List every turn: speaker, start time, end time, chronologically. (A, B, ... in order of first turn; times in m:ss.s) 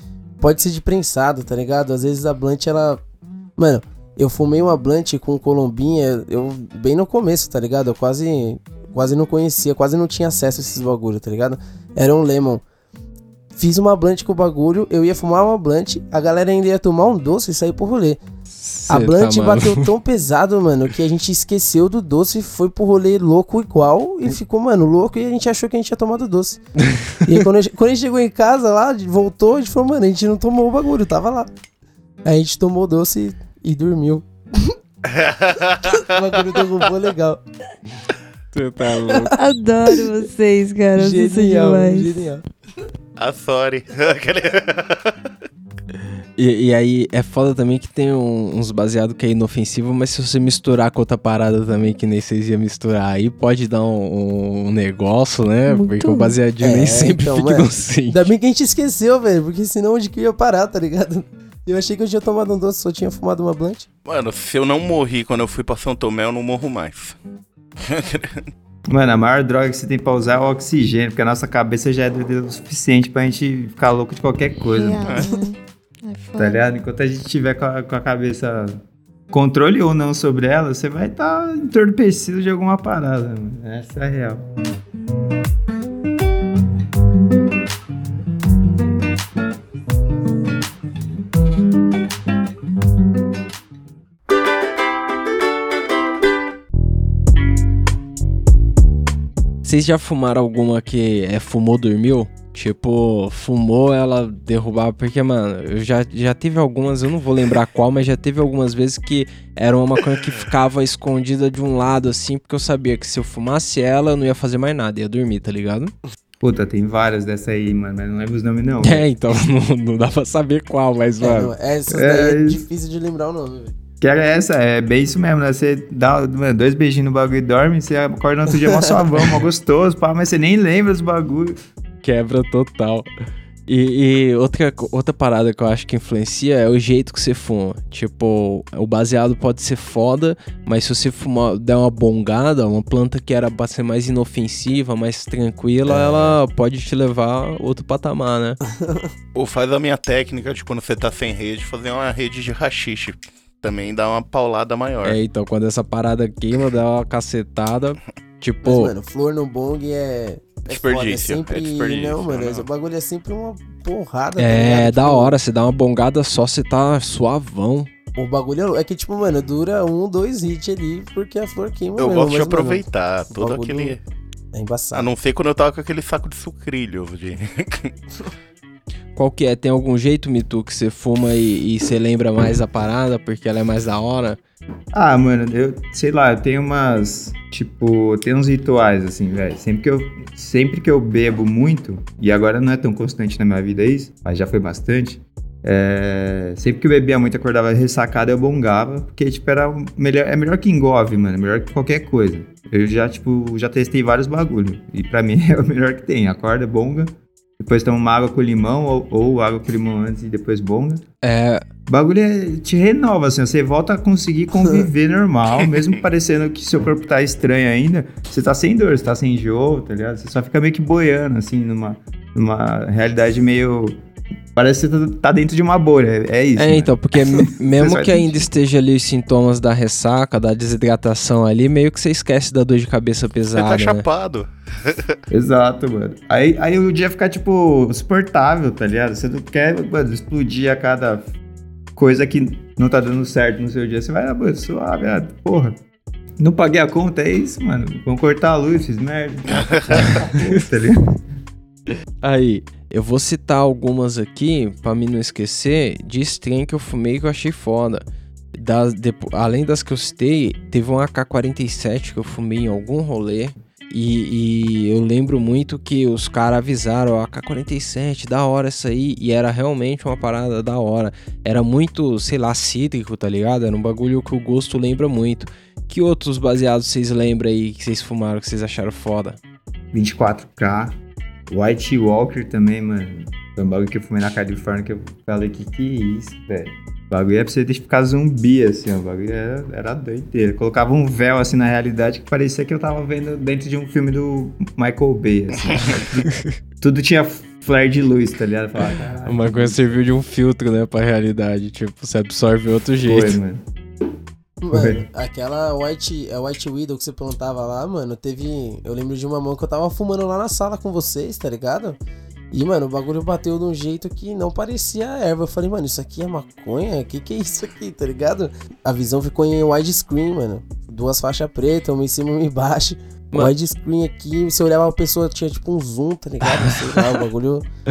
0:00.4-0:03.0 A
0:03.6-0:12.6 A
0:13.6-0:18.2 A
0:18.5-0:19.9 B
0:18.9-0:26.6 A
0:26.8-0:27.3 B
0:27.2-0:31.5 A
0:32.2-0:34.8 A
0:35.0-0:36.6 C
0:35.9-0:37.4 A
0:38.5-0:39.4 B
0:39.3-0:42.2 D
0:40.9-0:42.4 A
0:43.2-0:45.1 C
0:46.4-0:58.3 B
0:55.7-0:56.4 D
0:56.6-1:03.9 A
1:04.1-1:07.2 C
1:07.8-1:08.4 C
1:08.9-1:15.2 E
1:14.7-1:16.6 D
1:15.0-1:15.3 C
1:16.4-1:18.8 E
1:19.3-1:24.4 E
1:39.6-1:55.9 B
1:56.4-1:59.1 E
1:58.8-2:01.5 B
2:01.2-2:03.7 A
2:01.9-2:02.6 E
2:04.0-2:11.6 E
2:12.0-2:13.1 B
2:13.7-2:28.6 B
2:25.9-2:26.4 A
2:29.3-2:35.2 C
2:35.0-2:38.9 B
2:38.6-2:45.4 A
2:40.7-2:42.7 C
2:44.4-2:47.9 B
2:48.2-2:54.0 A
2:52.0-2:54.0 C
2:54.5-2:55.1 A
2:54.9-2:57.9 C
2:59.1-3:04.4 B
3:04.9-3:31.0 E
3:31.2-3:31.6 B
3:31.9-3:44.0 E
3:44.6-3:48.4 E
3:46.6-3:54.0 B
3:53.6-3:55.2 C
3:55.3-4:01.3 E
4:01.9-4:05.8 E
4:06.4-4:11.2 E
4:10.0-4:10.4 B
4:12.2-4:39.4 B
4:39.9-4:41.0 E
4:41.5-4:56.3 E
4:56.8-5:00.0 E
4:59.2-5:03.4 B
5:03.0-5:03.6 E
5:04.6-5:12.0 A
5:04.7-5:05.0 E
5:12.5-5:27.6 A
5:26.5-5:27.2 B